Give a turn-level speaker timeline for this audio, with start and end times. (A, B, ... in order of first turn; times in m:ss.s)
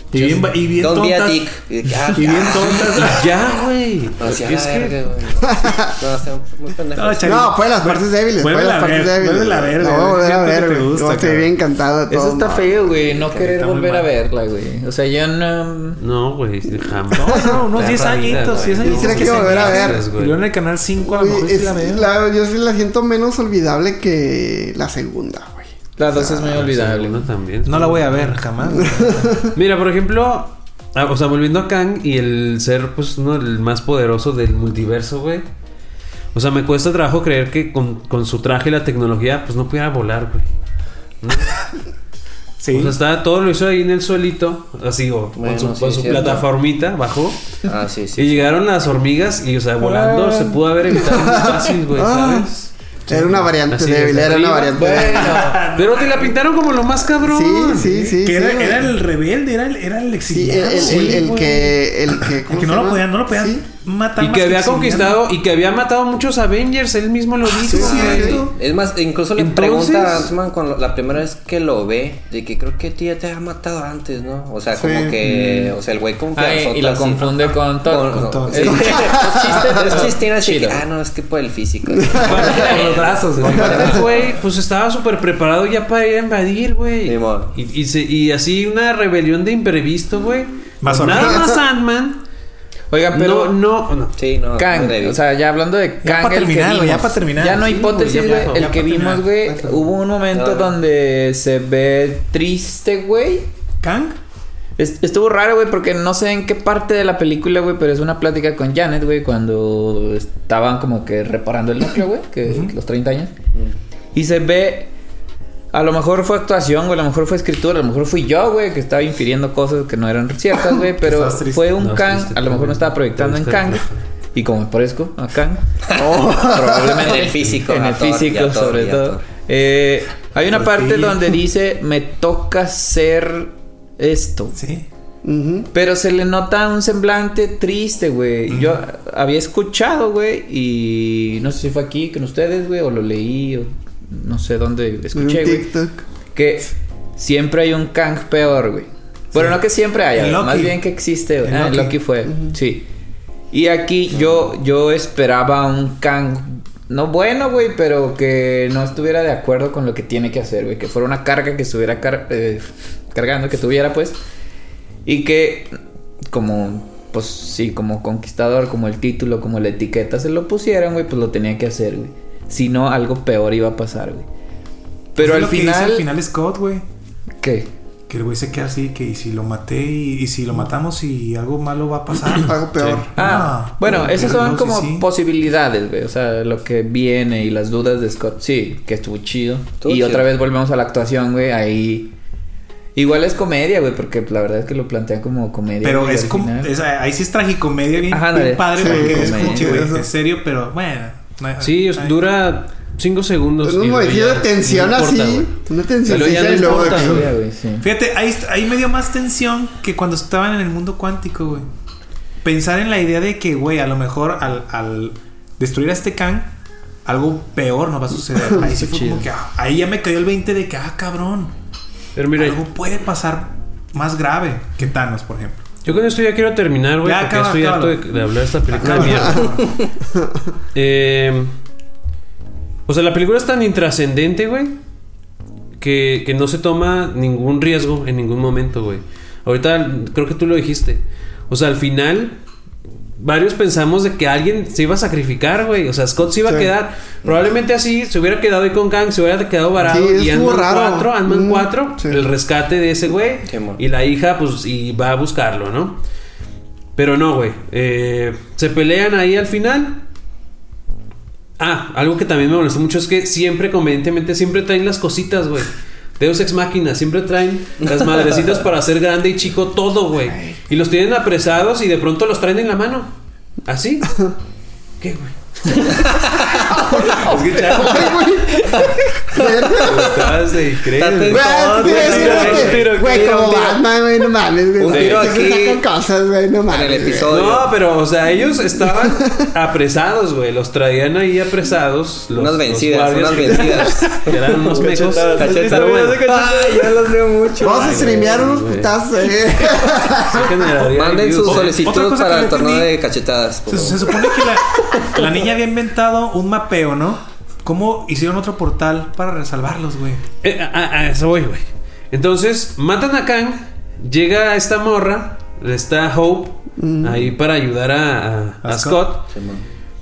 0:00.1-0:01.5 A
0:00.2-0:00.5 B
0:00.8-0:03.2 C
0:02.0-0:03.4 A
0:02.9-0:05.0 B
0:04.2-0:07.5 C
0:05.5-0:06.0 D
0:06.9-0:11.5 A
0:07.2-0:12.7 D
0:12.1-0:16.0 E
0:12.7-0:13.4 C
0:13.3-0:14.1 A
0:16.0-0:20.4 B
0:17.2-0:17.5 D
0:17.2-0:22.1 A
0:17.8-0:18.8 C
0:18.8-0:20.1 D
0:21.0-0:26.6 D
0:26.0-0:27.2 E
0:26.2-0:28.4 B
0:27.6-0:29.5 A
0:28.7-0:29.5 D
0:29.5-0:35.4 B
0:36.3-0:40.4 B
0:41.2-0:41.6 B
0:42.6-0:43.0 A
0:42.7-0:47.4 B
0:45.4-0:46.4 C
0:47.6-0:48.4 C
0:48.2-0:52.7 B
0:49.8-0:50.6 A
0:51.0-0:52.5 D
0:53.1-0:53.5 A
0:53.1-0:55.4 D
0:53.7-0:55.0 B
0:54.7-0:55.6 E
0:55.1-0:56.3 A
0:55.7-0:58.1 B
0:57.2-0:58.9 D
0:58.1-1:01.3 A
1:00.3-1:03.6 D
1:00.7-1:01.8 B
1:02.2-1:05.2 A
1:04.2-1:08.4 B
1:07.5-1:08.5 A
1:07.7-1:08.4 D
1:07.8-1:24.3 C
1:09.3-1:10.3 B
1:14.7-1:15.2 D
1:15.2-1:15.7 E
1:16.3-1:20.8 E
1:18.1-1:18.9 A
1:18.7-1:20.0 D
1:21.9-1:22.8 D
1:22.2-1:32.2 B
1:23.6-1:24.0 D
1:27.0-1:27.5 C
1:30.8-1:31.6 A
1:32.9-1:33.5 E
1:33.1-1:34.1 B
1:34.2-1:35.2 C
1:34.5-1:43.5 E
1:36.0-1:39.9 A
1:37.9-1:38.7 B
1:40.3-1:40.7 C
1:43.8-1:44.2 A
1:44.8-1:53.3 E
1:52.4-1:52.7 A
1:54.1-1:54.9 E
1:55.7-2:05.6 E
2:00.9-2:01.8 A
2:01.8-2:04.0 B
2:05.8-2:09.2 C
2:05.9-2:07.2 D
2:06.5-2:14.6 E
2:10.5-2:11.4 A
2:14.5-2:14.8 A
2:15.2-2:15.7 D
2:15.7-2:25.7 E
2:18.5-2:18.8 A
2:25.1-2:26.0 D
2:26.3-2:32.9 E
2:29.3-2:29.6 A
2:30.1-2:30.8 A
2:31.4-2:32.0 A
2:33.5-2:44.2 E
2:45.0-2:45.8 E
2:46.3-2:54.2 E
2:55.1-2:56.1 E
2:55.2-2:56.8 A
2:57.4-2:57.7 E
2:58.1-3:05.1 A
3:02.3-3:03.1 D
3:03.2-3:12.1 E
3:09.8-3:10.2 C
3:13.0-3:16.7 E
3:15.8-3:22.2 A
3:18.1-3:19.8 E
3:18.7-3:20.1 D
3:21.6-3:25.5 B
3:23.6-3:27.3 D
3:26.0-3:27.3 B
3:26.1-3:27.9 E
3:27.8-3:31.7 A
3:32.4-3:36.5 A
3:37.0-3:41.5 A
3:38.7-3:39.2 E
3:42.1-3:42.6 B
3:42.3-3:45.8 A
3:45.8-3:49.6 B
3:47.0-3:48.0 A
3:48.7-3:49.6 A
3:48.9-3:49.5 D
3:50.7-3:51.5 B
3:52.9-3:54.7 B
3:55.8-4:02.4 B
4:03.2-4:16.0 B
4:09.8-4:12.2 D
4:13.4-4:13.8 C
4:17.0-4:20.0 B
4:21.6-4:33.1 B
4:33.6-4:34.3 B
4:35.0-4:38.5 B
4:35.8-4:36.7 C
4:36.7-4:40.4 D
4:38.7-4:40.3 C
4:39.7-4:43.8 B
4:40.9-4:43.8 C
4:41.3-4:47.4 D
4:44.8-4:45.8 C
4:44.9-4:45.4 B
4:46.7-4:47.7 C
4:47.3-4:56.3 B
4:48.8-4:49.5 D
4:52.3-4:58.4 C
4:54.7-4:56.7 E
4:55.4-4:56.8 A
4:57.6-4:58.9 B
4:57.6-5:00.5 D
5:00.1-5:01.8 B
5:00.8-5:05.2 C
5:01.4-5:02.9 A
5:03.7-5:10.2 A
5:10.4-5:19.2 B
5:16.8-5:17.3 D
5:18.6-5:19.0 A
5:19.3-5:19.6 C